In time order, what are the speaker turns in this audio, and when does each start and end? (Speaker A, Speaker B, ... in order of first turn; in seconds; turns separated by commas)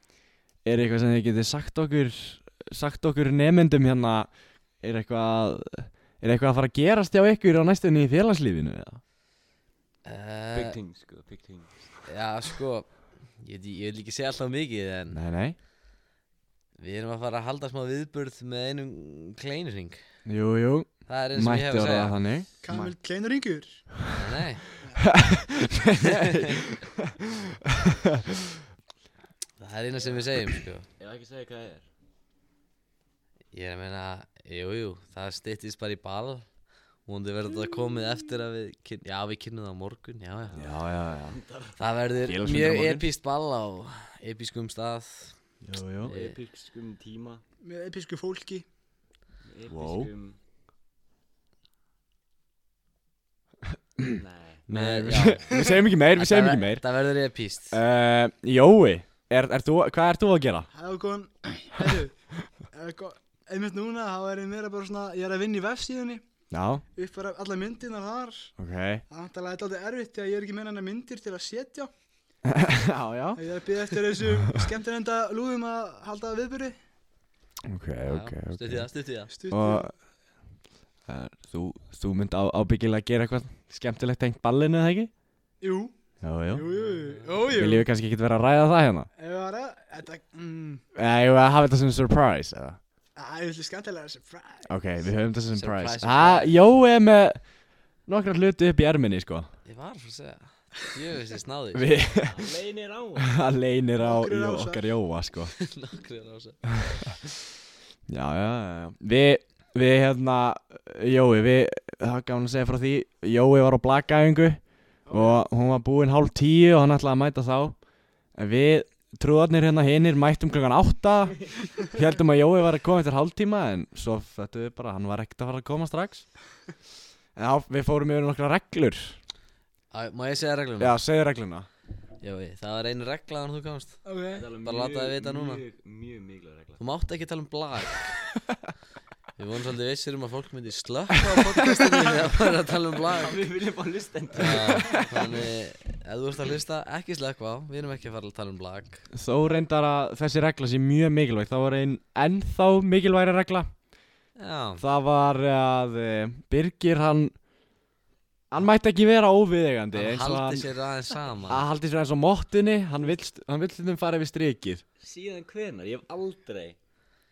Speaker A: 0.6-9.0, Speaker B: 10.0-10.8, Speaker C: 10.5-11.9, Speaker B: 12.1-15.2, Speaker A: 15.1-15.6, Speaker B: 16.8-20.0, Speaker A: 20.2-22.9, Speaker B: 21.1-22.2, Speaker D: 22.6-23.9, Speaker B: 24.1-24.6, Speaker A: 25.0-27.1, Speaker B: 26.0-26.6, Speaker A: 27.7-28.2, Speaker B: 29.6-30.9, Speaker C: 31.0-31.9, Speaker B: 33.5-36.5, Speaker B: 37.0-40.7, Speaker A: 40.5-41.4, Speaker C: 41.3-41.8, Speaker B: 41.8-45.4, Speaker A: 42.2-43.0, Speaker A: 45.6-46.1, Speaker B: 46.0-46.4, Speaker C: 46.0-47.4, Speaker D: 47.6-48.6, Speaker C: 49.5-50.4, Speaker A: 49.7-50.1, Speaker A: 54.0-56.8, Speaker C: 54.1-54.6, Speaker B: 54.7-57.8, Speaker A: 57.7-60.7, Speaker D: 60.7-66.2, Speaker A: 66.5-66.8, Speaker D: 66.9-68.5, Speaker A: 68.6-69.0, Speaker D: 69.1-71.9, Speaker A: 72.4-73.9, Speaker D: 73.3-76.8, Speaker A: 77.7-78.9, Speaker B: 78.0-79.3, Speaker D: 79.3-79.9, Speaker A: 79.5-79.9, Speaker A: 81.1-85.1, Speaker D: 85.6-85.9, Speaker A: 86.2-86.6, Speaker D: 86.5-87.8, Speaker B: 86.7-87.3, Speaker A: 87.5-89.1, Speaker D: 89.2-90.8, Speaker A: 90.9-92.8, Speaker D: 93.2-94.7, Speaker A: 94.7-97.4, Speaker B: 95.5-96.6, Speaker A: 98.0-99.5, Speaker B: 99.6-101.9, Speaker A: 101.7-102.5, Speaker C: 102.2-103.3, Speaker A: 103.2-105.5, Speaker D: 104.0-104.8, Speaker B: 105.5-107.0, Speaker A: 108.1-117.8, Speaker D: 115.1-115.3, Speaker A: 118.3-126.2, Speaker A: 127.3-129.2, Speaker B: 129.9-131.0, Speaker A: 130.8-131.7, Speaker B: 132.2-134.0, Speaker D: 134.0-134.5, Speaker C: 134.3-136.8, Speaker B: 134.6-135.6, Speaker B: 136.8-138.1, Speaker B: 139.4-143.4, Speaker D: 141.7-141.9, Speaker C: 143.1-145.4, Speaker B: 144.3-149.1, Speaker A: 149.1-153.7, Speaker B: 154.3-154.8, Speaker A: 154.8-157.3, Speaker A: 158.5-160.7, Speaker B: 159.9-161.6, Speaker A: 161.5-164.8, Speaker C: 165.0-166.8